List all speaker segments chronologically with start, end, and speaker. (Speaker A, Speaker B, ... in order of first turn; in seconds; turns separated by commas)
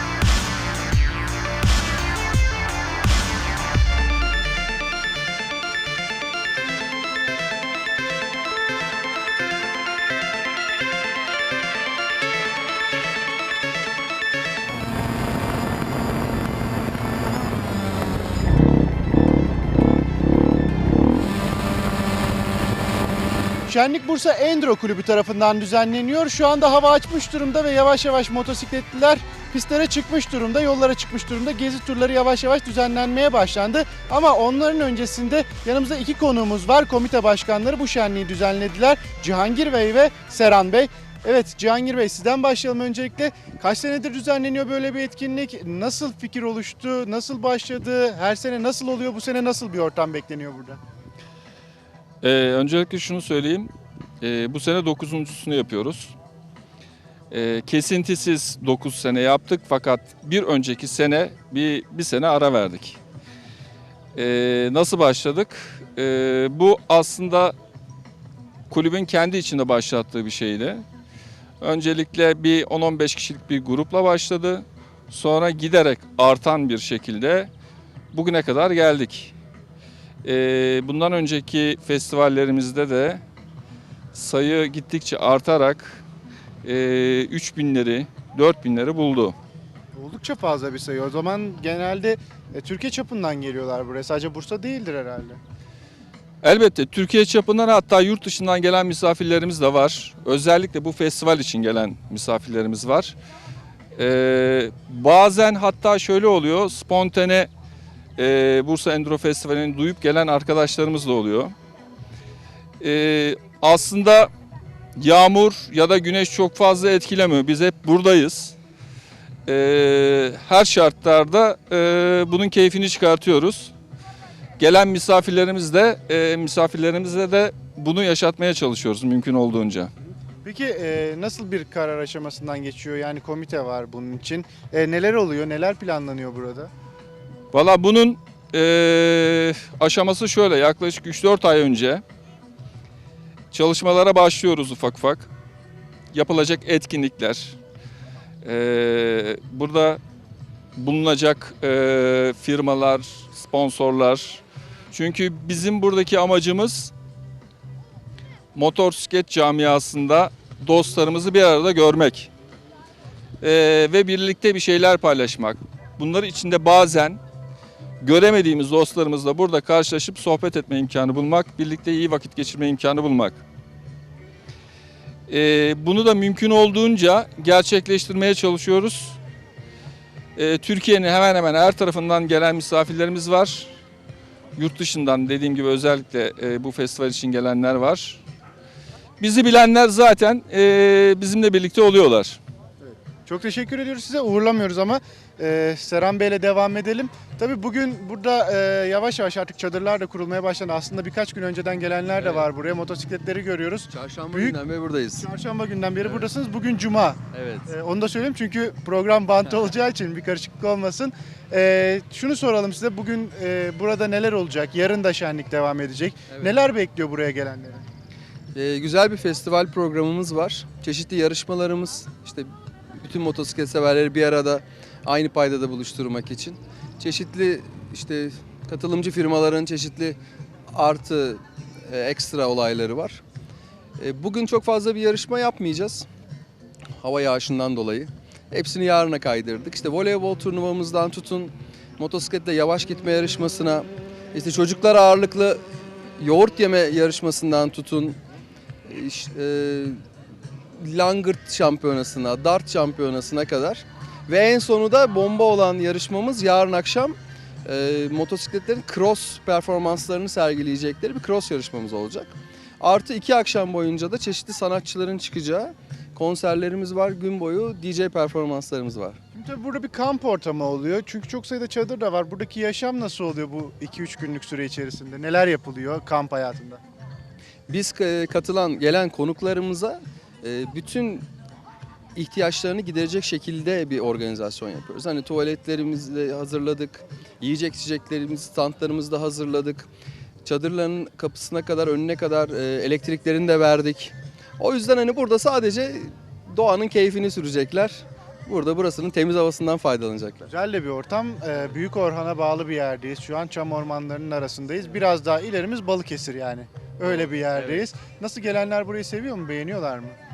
Speaker A: 23.7-50.8, Speaker B: 52.2-56.1, Speaker B: 57.3-63.0, Speaker B: 64.1-67.5, Speaker B: 68.7-70.8, Speaker B: 71.6-77.5, Speaker B: 78.1-79.3, Speaker B: 80.2-83.2, Speaker B: 84.1-86.0, Speaker B: 86.6-89.3, Speaker A: 89.9-95.4, Speaker B: 96.4-103.2, Speaker B: 104.0-107.5, Speaker B: 108.2-111.5, Speaker B: 112.8-114.3, Speaker B: 115.0-118.5, Speaker B: 119.5-123.7, Speaker B: 124.6-129.9, Speaker A: 130.4-136.7, Speaker B: 137.5-142.0, Speaker B: 143.5-145.3, Speaker B: 146.1-147.6, Speaker B: 148.4-150.0, Speaker B: 150.8-154.4, Speaker B: 154.9-156.9, Speaker B: 158.5-162.3, Speaker B: 163.4-167.2, Speaker B: 168.0-173.4, Speaker B: 175.3-179.2, Speaker B: 180.3-183.7, Speaker B: 184.6-188.2, Speaker B: 189.2-192.4, Speaker A: 192.8-204.6, Speaker C: 202.2-202.5, Speaker C: 203.9-205.2, Speaker A: 205.2-217.8, Speaker C: 206.0-206.3, Speaker C: 207.3-207.7, Speaker C: 218.5-230.2, Speaker C: 230.7-233.2, Speaker C: 234.0-236.1, Speaker C: 237.0-245.6, Speaker C: 246.2-248.2, Speaker C: 248.8-250.0, Speaker C: 250.8-269.2, Speaker A: 269.3-276.8, Speaker C: 277.7-281.3, Speaker C: 282.1-289.9, Speaker C: 290.4-300.4, Speaker A: 300.4-310.1